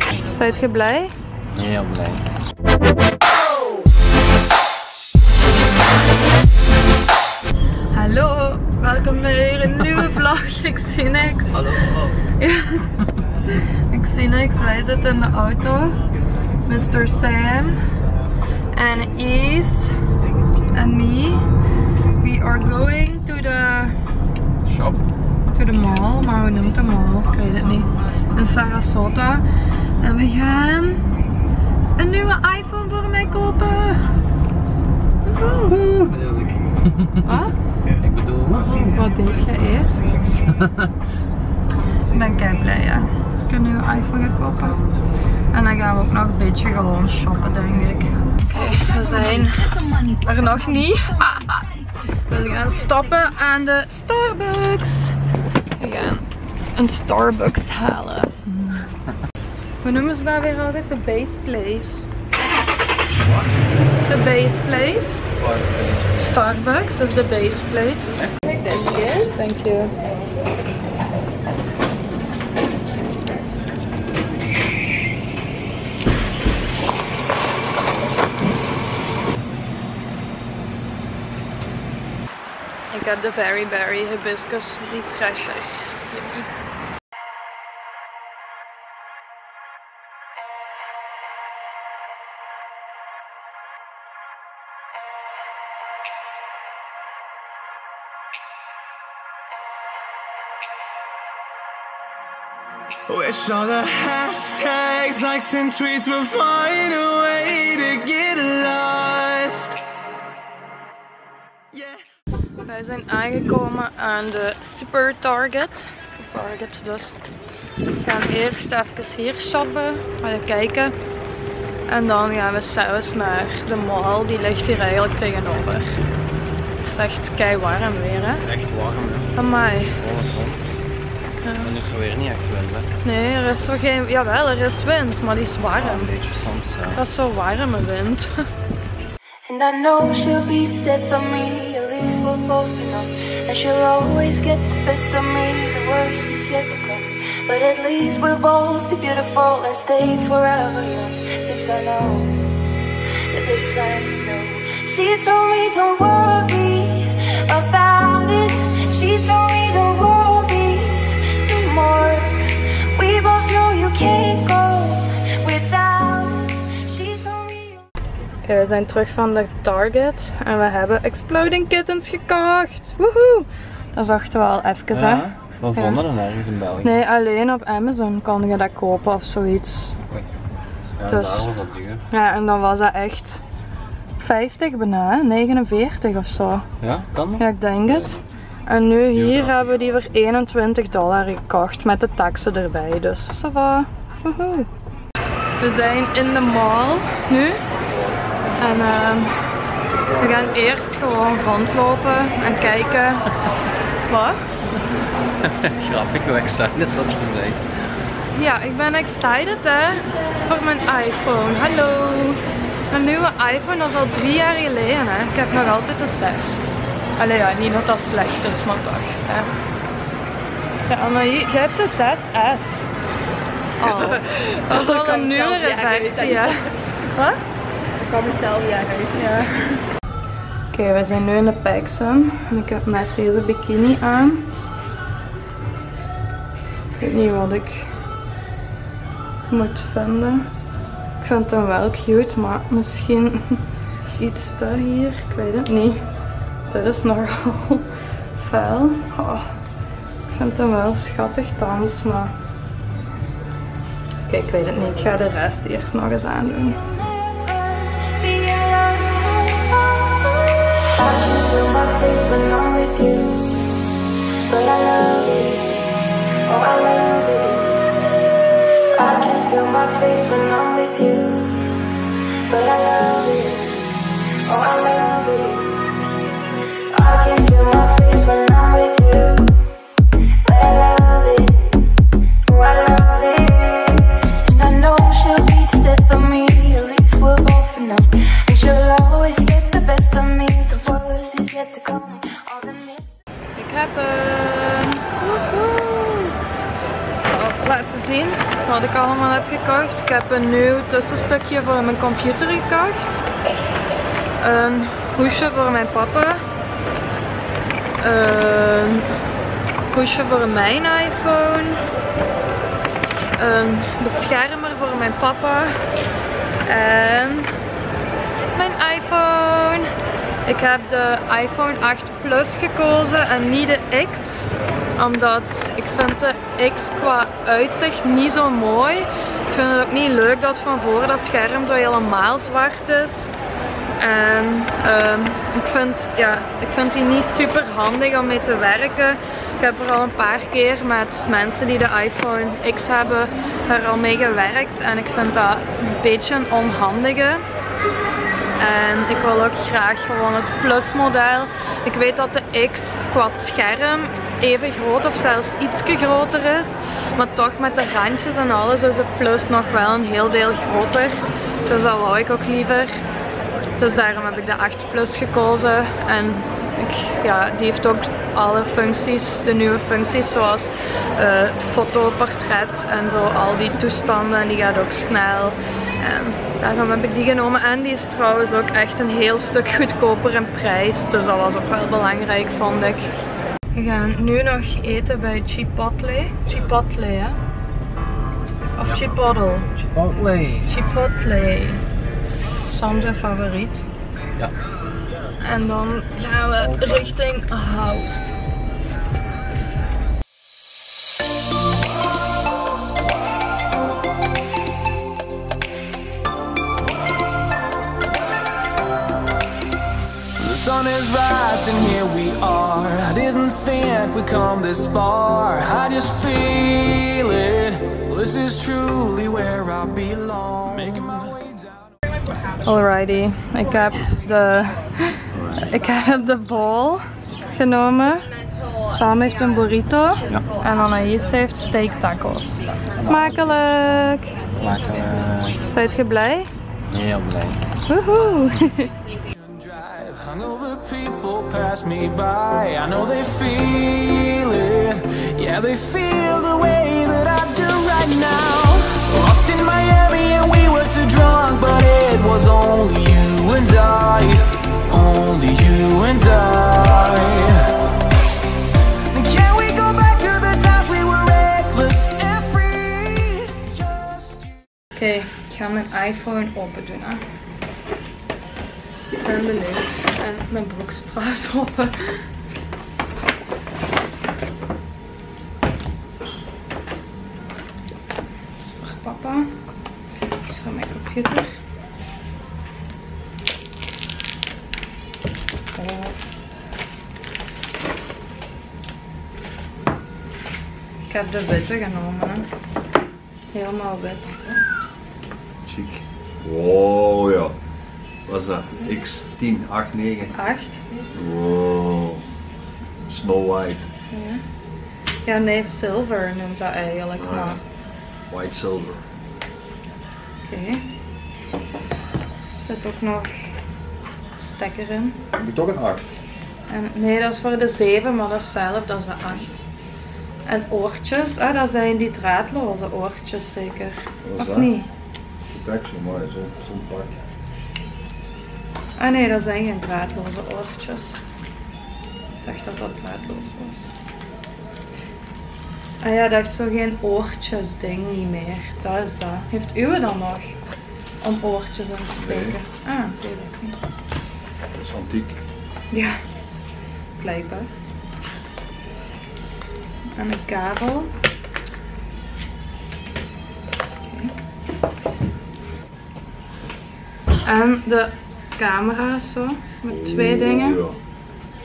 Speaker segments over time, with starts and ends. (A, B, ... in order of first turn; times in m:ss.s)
0:00.2-0:01.1 A
0:01.5-0:02.2 B
0:07.9-0:13.0 A
0:13.5-0:16.0 A
0:16.6-0:17.8 A
0:18.7-0:19.9 A
0:20.7-0:21.5 A
0:22.2-0:24.0 A
0:25.5-0:29.4 A
0:30.0-0:31.1 A
0:32.0-0:34.1 A
0:35.2-0:35.8 A
0:35.7-0:37.2 B
0:37.2-0:37.5 A
0:38.0-0:38.7 B
0:38.6-0:40.3 A
0:40.5-0:40.7 B
0:42.1-0:44.8 A
0:45.5-0:51.6 A
0:52.2-0:55.2 A
0:55.8-0:58.4 A
0:59.8-1:02.0 A
1:04.0-1:05.3 A
1:05.4-1:06.2 B
1:06.1-1:08.3 A
1:08.5-1:09.2 C
1:09.0-1:10.0 A
1:22.9-1:26.5 A
1:43.1-1:49.8 D
1:51.7-1:52.0 D
1:52.6-1:57.2 A
1:58.0-2:00.9 A
2:01.9-2:06.0 A
2:06.8-2:08.4 A
2:08.4-2:09.3 B
2:09.3-2:10.0 A
2:10.0-2:10.6 B
2:11.4-2:11.8 A
2:11.6-2:12.9 B
2:13.0-2:16.1 A
2:15.8-2:17.0 B
2:16.9-2:18.3 A
2:19.4-2:32.5 E
2:33.3-2:47.9 E
2:48.4-2:56.0 A
2:55.0-2:56.9 B
2:56.8-3:00.0 A
3:01.0-3:02.0 B
3:01.0-3:01.5 A
3:02.1-3:03.4 A
3:04.2-3:06.6 A
3:06.8-3:08.2 B
3:07.4-3:14.7 A
3:09.1-3:10.1 B
3:15.6-3:17.6 A
3:18.6-3:19.4 A
3:20.2-3:23.3 A
3:24.1-3:24.4 A
3:25.4-3:27.6 B
3:28.3-3:36.6 A
3:37.2-3:39.5 A
3:40.8-3:42.9 A
3:43.8-3:47.4 A
3:44.2-3:46.5 C
3:48.0-3:49.1 C
3:49.1-3:49.8 A
3:50.7-3:54.5 A
3:57.0-3:57.9 A
3:59.5-4:00.5 A
4:01.2-4:03.6 A
4:04.2-4:06.0 A
4:06.7-4:09.5 A
4:10.3-4:12.3 A
4:14.3-4:16.8 A
4:16.8-4:23.5 E
4:24.4-4:28.0 E
4:28.9-4:31.7 E
4:32.4-4:35.9 E
4:36.9-4:39.7 E
4:40.3-4:41.9 E
4:42.4-4:53.1 E
4:53.5-4:56.4 A
4:57.2-5:03.2 A
5:04.4-5:06.4 A
5:08.0-5:09.1 A
5:09.9-5:11.8 A
5:13.4-5:15.8 A
5:16.6-5:17.5 A
5:18.5-5:19.9 A
5:20.4-5:33.3 A
5:34.0-5:47.4 A
5:48.6-6:03.0 A
6:03.8-6:23.1 A
6:23.7-6:27.4 A
6:28.8-6:29.7 A
6:29.8-6:30.7 B
6:30.7-6:31.8 A
6:32.6-6:33.8 A
6:35.4-6:38.4 A
6:50.4-7:01.9 D
7:02.6-7:07.0 A
7:05.4-7:05.6 B
7:07.5-7:14.4 A
7:13.0-7:13.4 B
7:14.6-7:15.6 B
7:15.6-7:16.5 A
7:16.9-7:17.6 B
7:17.9-7:18.9 A
7:19.4-7:37.8 D
7:39.1-7:44.5 D
7:44.9-7:47.2 A
7:49.1-7:52.2 A
7:58.6-7:59.6 A
8:00.4-8:01.5 A
8:05.7-8:06.2 A
8:11.1-8:12.5 A
8:13.5-8:14.4 A
8:15.6-8:17.6 F
8:18.2-8:20.3 F
8:20.3-8:21.1 A
8:21.1-8:22.2 F
8:23.1-8:23.9 F
8:24.1-8:24.4 A
8:25.2-8:27.6 A
8:27.2-8:27.6 F
8:28.3-8:29.0 F
8:30.5-8:30.9 A
8:32.6-8:33.5 A
8:34.4-8:35.2 A
8:35.3-8:36.1 F
8:36.7-8:39.6 A
8:40.4-8:44.9 A
8:44.2-8:44.7 F
8:45.5-8:47.2 F
8:49.0-8:51.2 A
8:52.4-8:53.9 A
8:56.0-9:00.6 A
9:01.2-9:03.8 A
9:02.2-9:02.6 F
9:04.7-9:05.4 F
9:05.9-9:06.2 A
9:07.2-9:07.7 A
9:10.2-9:11.1 A
9:14.0-9:14.3 A
9:17.4-9:20.8 A
9:19.9-9:21.0 F